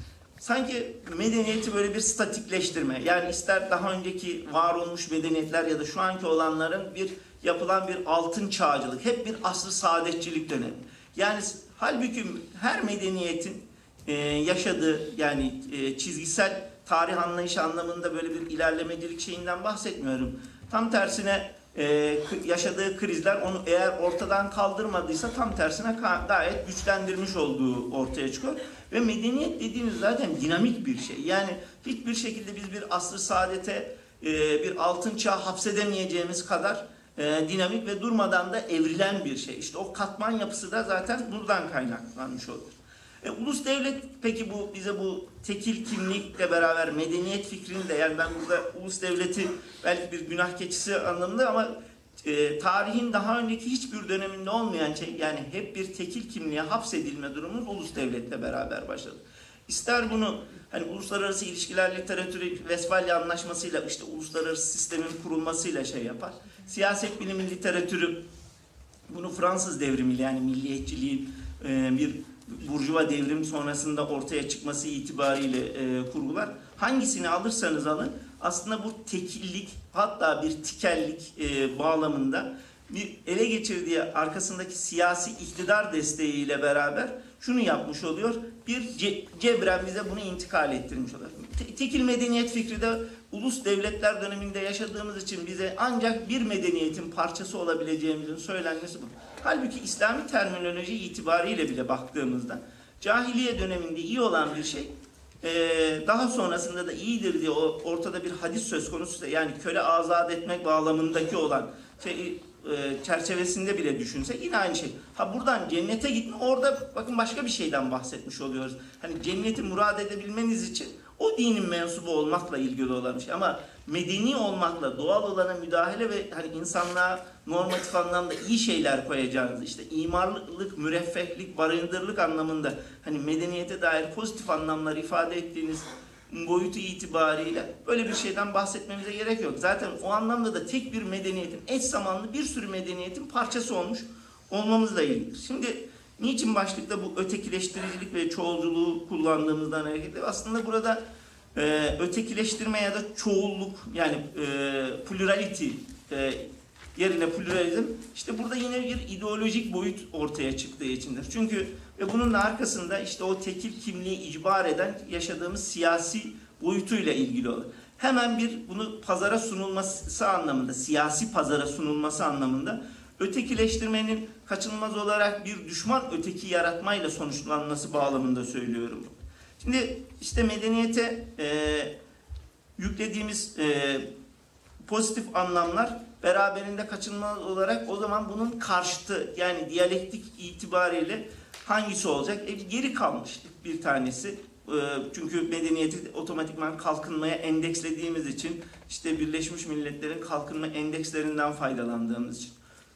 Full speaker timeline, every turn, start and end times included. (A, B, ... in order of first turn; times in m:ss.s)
0:00.4-1:08.2 A
1:09.1-2:31.0 A
2:31.6-3:01.9 A
3:02.8-3:04.1 A
3:04.8-3:22.6 A